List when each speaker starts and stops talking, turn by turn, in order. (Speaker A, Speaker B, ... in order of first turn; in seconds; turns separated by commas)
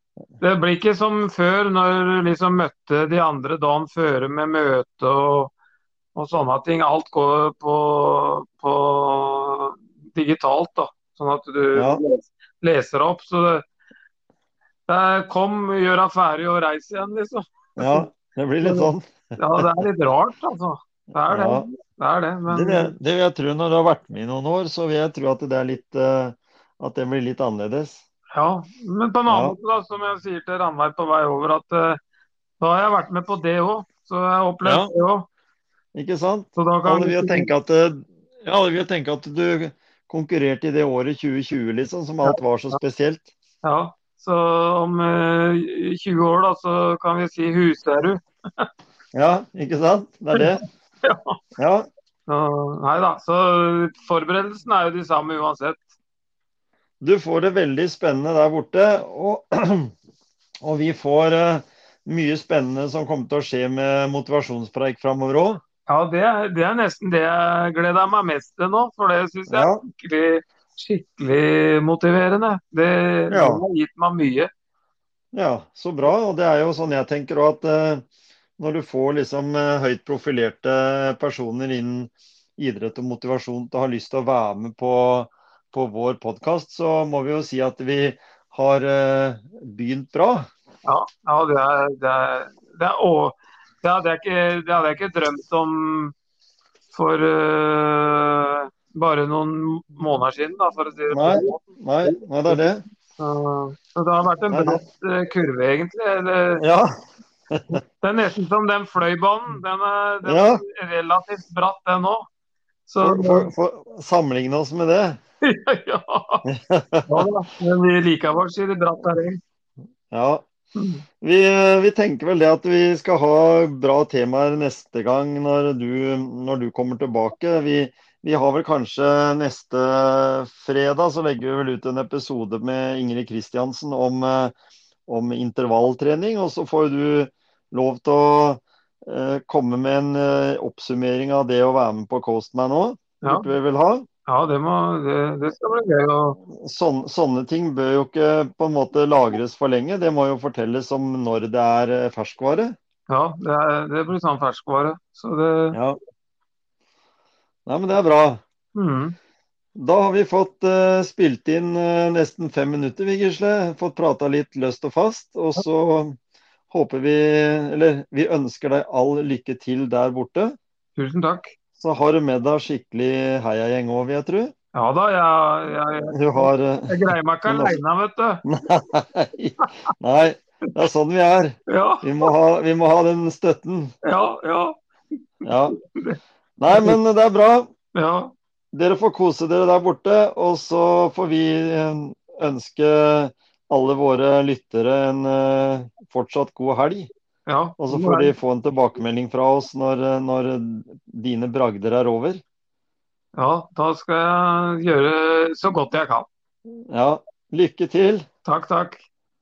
Speaker A: 0.4-5.5, Speaker A: 6.1-13.6, Speaker B: 11.7-12.0, Speaker A: 14.9-18.0, Speaker B: 17.8-19.7, Speaker A: 18.6-22.9, Speaker B: 21.2-21.7, Speaker B: 22.5-28.0, Speaker A: 28.3-32.0, Speaker B: 29.3-29.6, Speaker A: 32.6-35.3, Speaker B: 34.6-34.9, Speaker B: 35.9-43.3, Speaker A: 36.5-37.5, Speaker A: 42.2-42.8, Speaker A: 43.6-48.7, Speaker B: 49.1-50.6, Speaker A: 50.3-51.4, Speaker B: 51.6-51.9, Speaker A: 52.3-55.8, Speaker B: 57.0-59.9, Speaker B: 60.6-65.6, Speaker A: 65.9-74.5, Speaker B: 69.5-69.8, Speaker B: 73.3-73.6, Speaker B: 75.3-78.0, Speaker B: 78.6-90.5, Speaker A: 90.8-96.1, Speaker A: 96.9-102.6, Speaker B: 101.1-102.8, Speaker A: 103.2-106.6, Speaker B: 104.5-104.8, Speaker B: 106.6-106.9, Speaker B: 107.5-107.8, Speaker A: 108.0-112.2, Speaker B: 110.2-110.6, Speaker A: 112.9-113.5, Speaker B: 113.0-115.2, Speaker A: 115.4-116.4, Speaker B: 116.5-117.2, Speaker A: 117.1-119.4, Speaker B: 120.1-120.4, Speaker A: 120.8-121.0, Speaker B: 121.2-134.5, Speaker B: 135.1-144.1, Speaker A: 143.2-143.5, Speaker A: 144.3-146.4, Speaker B: 146.5-152.7, Speaker A: 153.1-155.8, Speaker B: 155.7-156.0, Speaker B: 157.7-158.4, Speaker A: 158.7-159.1, Speaker B: 159.8-166.2, Speaker B: 166.7-170.6, Speaker A: 170.9-171.5, Speaker B: 171.8-174.5, Speaker A: 174.7-178.4, Speaker B: 176.1-177.8, Speaker B: 178.4-183.9, Speaker A: 181.7-182.3, Speaker A: 184.0-184.8, Speaker B: 185.4-185.8, Speaker A: 185.8-187.0, Speaker B: 186.6-187.7, Speaker A: 187.9-188.3, Speaker B: 188.7-197.1, Speaker A: 197.5-198.3, Speaker B: 197.8-202.4, Speaker A: 203.3-206.3, Speaker B: 206.9-208.2, Speaker A: 208.4-209.0